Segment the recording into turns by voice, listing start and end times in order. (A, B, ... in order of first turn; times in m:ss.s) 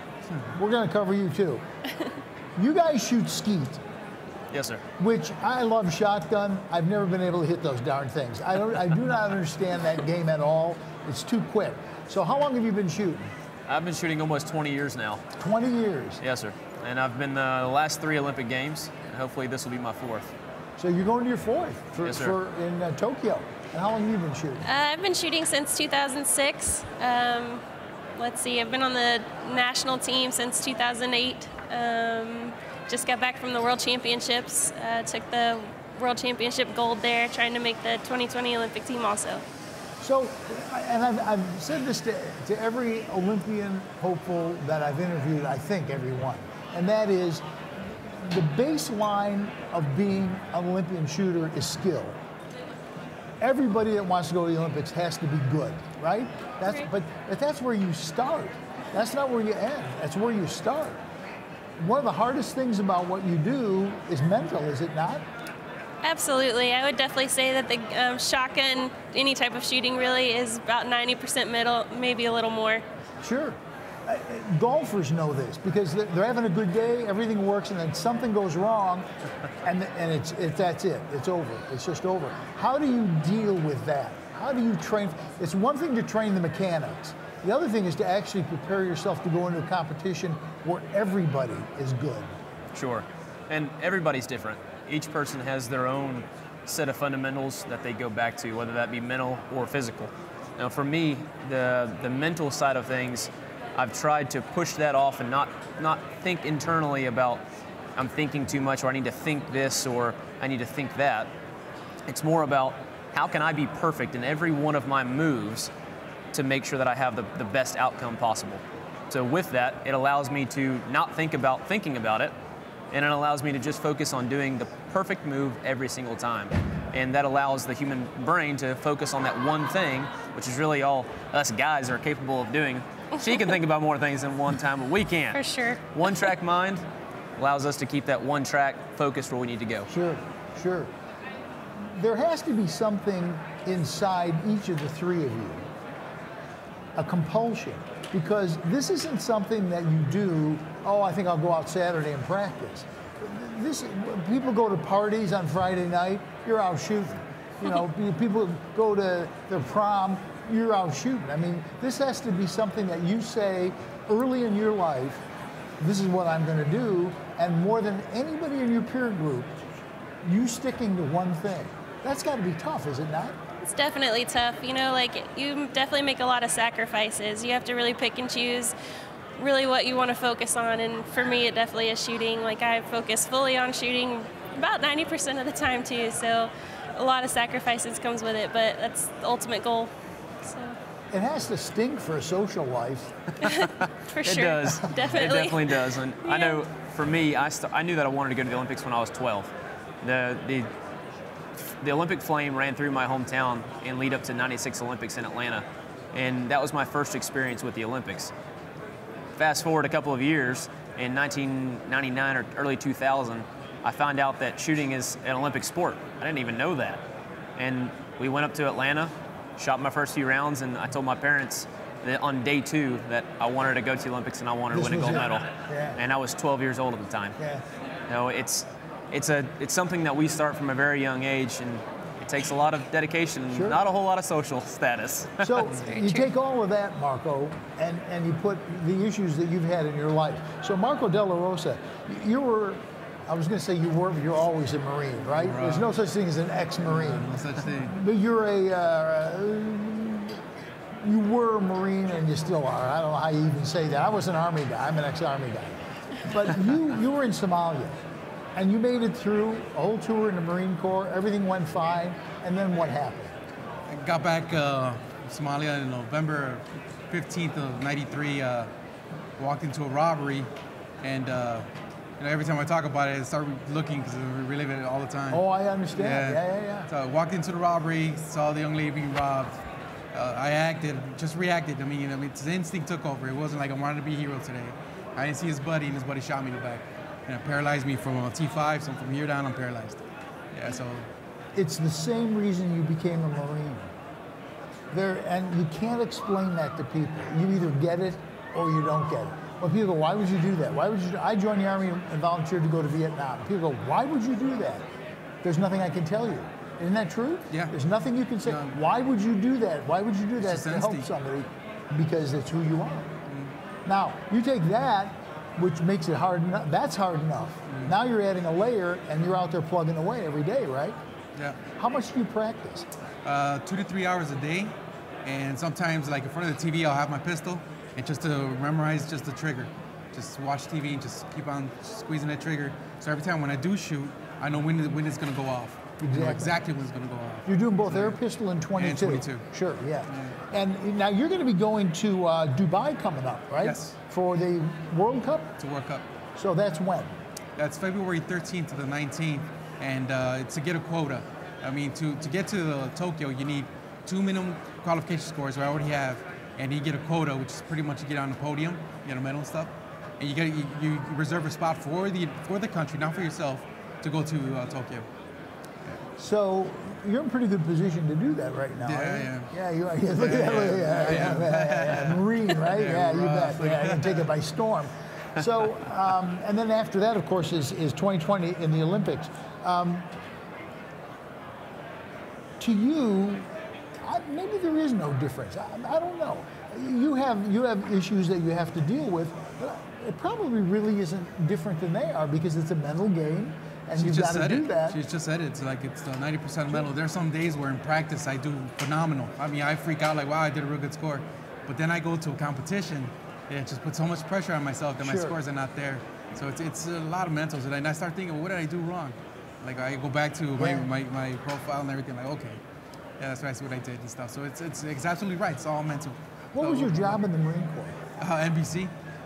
0:00.5-0:01.6 A
0:02.6-0:03.8 A
0:04.5-0:04.8 B
0:05.0-0:13.3 A
0:13.7-0:15.2 B
0:15.4-0:16.2 A
0:16.2-0:20.3 B
0:20.8-0:24.7 A
0:22.0-0:22.4 B
0:24.6-0:27.6 C
0:28.2-0:39.4 C
0:40.0-0:47.4 A
0:48.1-0:52.2 A
0:53.4-1:01.0 A
1:01.8-1:05.2 A
1:06.0-1:12.8 C
1:13.2-1:19.0 A
1:19.6-1:32.3 A
1:32.7-1:47.4 B
1:48.0-1:51.3 B
1:52.1-1:55.7 B
1:56.3-2:02.3 B
2:02.9-2:16.8 B
2:15.3-2:15.8 C
2:17.4-2:19.9 B
2:19.9-2:20.9 A
2:21.8-2:25.7 A
2:27.0-2:45.2 A
2:45.8-2:49.5 A
2:50.2-2:53.4 A
2:53.6-2:58.7 C
2:59.4-3:10.8 C
3:11.1-3:13.1 A
3:13.4-3:19.5 B
3:13.5-3:16.6 C
3:20.0-3:20.7 B
3:21.8-3:28.3 B
3:29.4-3:37.0 B
3:37.6-3:47.4 B
3:44.7-3:46.0 A
3:48.1-3:55.7 B
3:53.5-3:53.8 A
3:55.4-4:10.4 A
3:55.9-3:56.2 C
4:05.3-4:05.9 D
4:06.8-4:07.9 D
4:11.0-4:18.0 A
4:18.5-4:23.4 A
4:23.9-4:28.7 D
4:29.4-4:30.5 D
4:31.0-4:31.7 D
4:32.2-4:39.6 D
4:35.3-4:36.9 A
4:40.1-4:51.1 D
4:51.5-4:53.9 A
4:54.9-5:04.8 A
5:05.4-5:13.1 A
5:08.4-5:08.8 D
5:10.4-5:11.1 D
5:13.3-5:13.6 D
5:13.8-5:21.0 A
5:17.7-5:18.0 D
5:21.8-5:22.9 A
5:23.2-5:38.2 D
5:36.0-5:36.6 A
5:37.4-5:45.5 A
5:38.7-5:39.5 D
5:40.1-5:40.4 D
5:43.6-5:44.0 D
5:45.6-5:46.0 D
5:46.4-5:47.1 A
5:47.6-6:05.1 D
6:06.2-6:20.1 A
6:08.8-6:09.5 D
6:10.1-6:14.3 D
6:22.6-6:23.4 A
6:24.0-6:35.0 A
6:33.9-6:52.6 D
6:45.0-6:45.4 A
6:50.6-6:50.9 A
6:53.2-6:57.2 D
6:56.5-6:58.0 A
6:58.2-6:58.9 D